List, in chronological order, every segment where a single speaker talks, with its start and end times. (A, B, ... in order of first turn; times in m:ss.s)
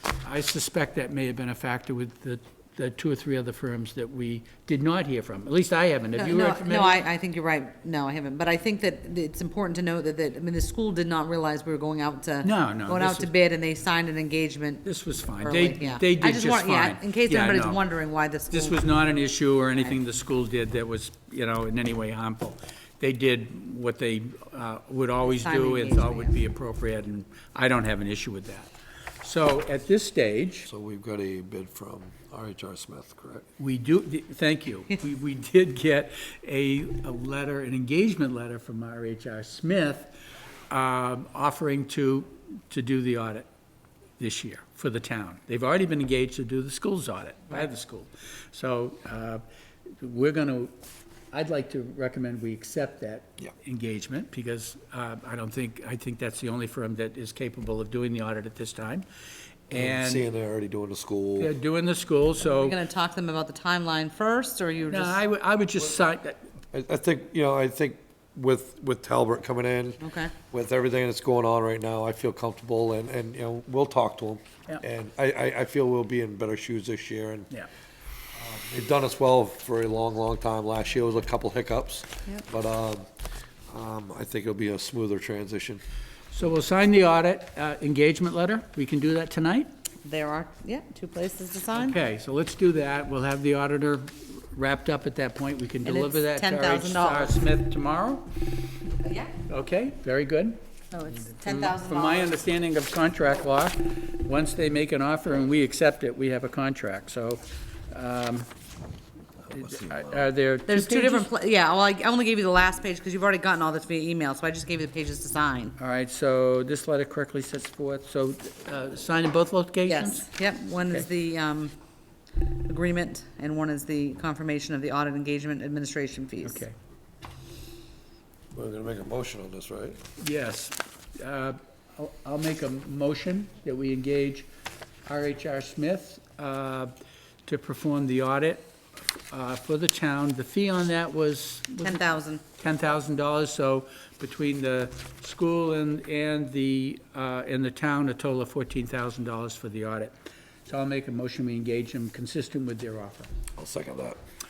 0:00.2-0:07.0 A
0:06.2-0:14.9 B
0:12.4-0:13.3 A
0:14.8-0:17.8 A
0:15.4-0:18.8 B
0:18.5-0:28.7 A
0:25.3-0:26.4 B
0:29.2-0:30.7 A
0:30.7-0:33.5 C
0:33.6-0:40.2 A
0:40.7-0:43.5 A
0:44.2-0:49.4 A
0:50.0-0:50.7 A
0:51.3-0:59.1 A
0:59.7-1:00.3 A
0:59.7-1:01.5 C
1:01.4-1:02.8 A
1:02.5-1:05.2 B
1:04.9-1:06.4 A
1:06.7-1:17.5 C
1:10.0-1:10.3 B
1:18.4-1:23.1 C
1:23.7-1:25.8 C
1:26.3-1:29.7 A
1:30.0-1:32.0 B
1:31.7-1:38.3 A
1:35.8-1:37.4 B
1:39.0-1:39.3 B
1:39.5-1:40.6 A
1:40.9-1:42.4 B
1:41.2-1:48.5 A
1:49.5-1:50.3 C
1:49.5-1:51.3 A
1:50.7-1:55.8 B
1:55.8-2:00.3 A
1:59.9-2:01.7 B
2:02.7-2:06.6 B
2:06.4-2:06.8 A
2:08.5-2:10.0 C
2:10.2-2:14.5 A
2:15.1-2:16.9 A
2:17.5-2:18.7 A
2:19.3-2:22.0 A
2:21.8-2:22.4 B
2:22.6-2:30.1 A
2:30.7-2:33.3 A
2:33.6-2:34.2 C